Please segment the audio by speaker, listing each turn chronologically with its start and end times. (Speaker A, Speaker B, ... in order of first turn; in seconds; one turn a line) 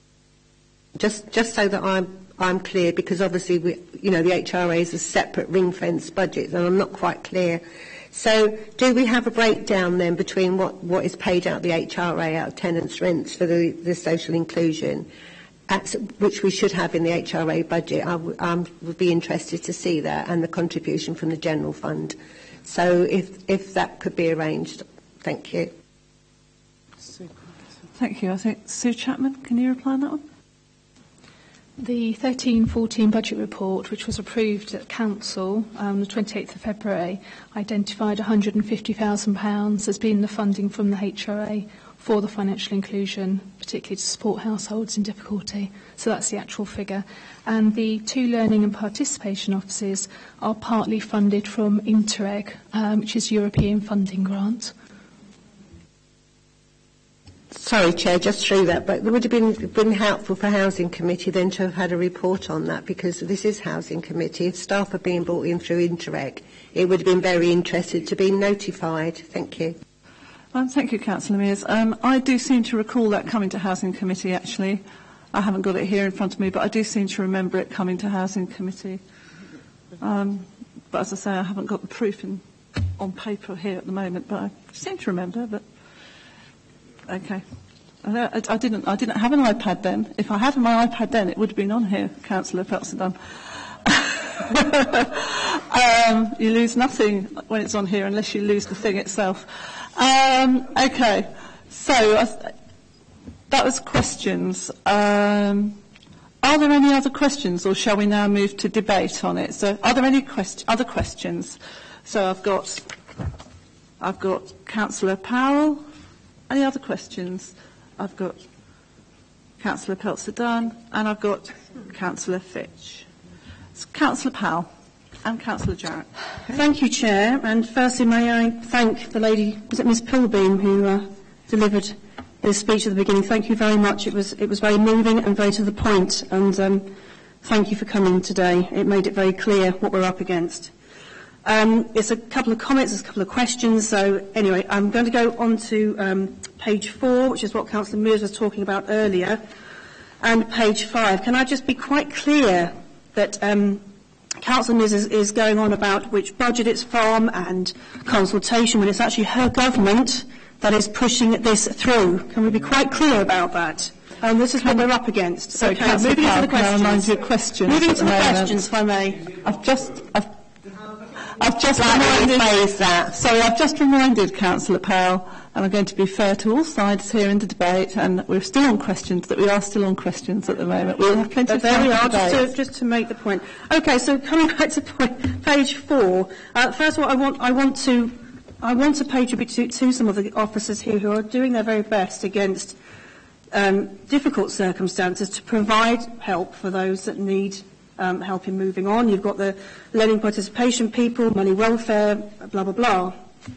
Speaker A: 1.0-15.1
Speaker A: 15.7-25.7
Speaker B: 27.9-30.2
Speaker C: 31.8-54.7
Speaker A: 57.5-69.8
Speaker B: 70.5-79.0
Speaker B: 80.0-82.4
Speaker B: 83.0-85.6
Speaker B: 87.1-87.4
Speaker B: 88.0-93.2
Speaker B: 93.7-102.5
Speaker B: 103.5-105.8
Speaker B: 106.4-112.8
Speaker B: 114.0-115.8
Speaker B: 116.5-118.4
Speaker B: 119.6-123.0
Speaker B: 123.8-124.7
Speaker B: 125.2-126.1
Speaker D: 126.5-136.9
Speaker D: 137.4-140.7
Speaker D: 141.4-149.4
Speaker D: 150.2-153.9
Speaker D: 154.4-169.4
Speaker B: 164.6-164.9
Speaker B: 165.5-168.6
Speaker B: 169.4-170.3
Speaker B: 171.3-172.4
Speaker A: 171.8-173.1
Speaker B: 173.1-182.2
Speaker D: 181.5-192.8
Speaker A: 181.6-182.4
Speaker D: 193.5-203.2